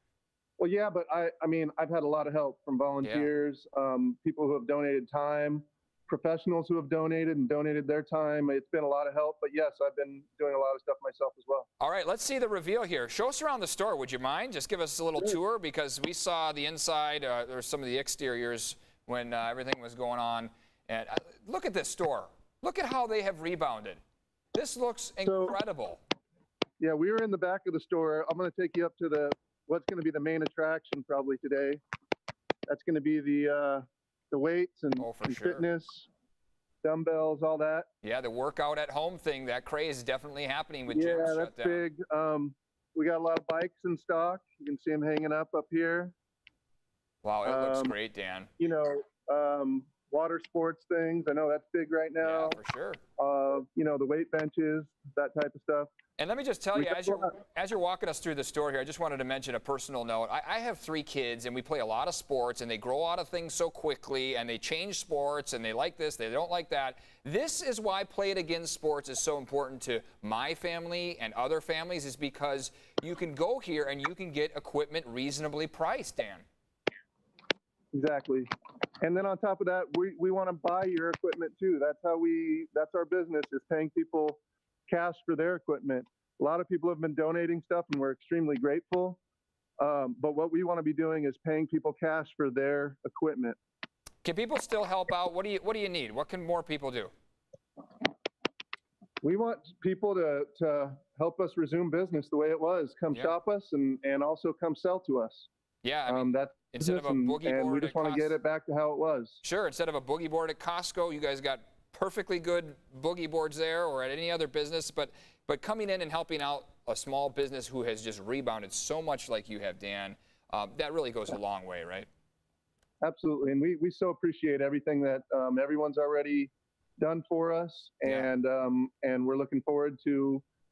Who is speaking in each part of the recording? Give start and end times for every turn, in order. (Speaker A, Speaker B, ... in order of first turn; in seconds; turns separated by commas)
Speaker A: 0.6-11.7, Speaker B: 3.0-3.3, Speaker B: 11.8-24.0, Speaker B: 24.5-26.0, Speaker A: 25.2-25.6, Speaker A: 26.8-31.8, Speaker A: 32.7-36.1, Speaker B: 35.0-35.6, Speaker A: 36.8-37.9, Speaker B: 38.0-41.9, Speaker A: 40.9-46.1, Speaker B: 47.2-48.5, Speaker A: 47.4-48.0, Speaker A: 48.6-52.6, Speaker B: 52.2-53.0, Speaker A: 53.2-55.9, Speaker B: 56.2-76.4, Speaker A: 56.8-57.3, Speaker A: 77.9-78.5, Speaker A: 79.0-89.2, Speaker A: 89.8-93.6, Speaker B: 94.2-97.1, Speaker A: 99.2-105.5, Speaker B: 105.8-108.4, Speaker A: 106.1-109.4, Speaker B: 109.4-122.1, Speaker A: 123.0-130.4, Speaker B: 128.0-128.3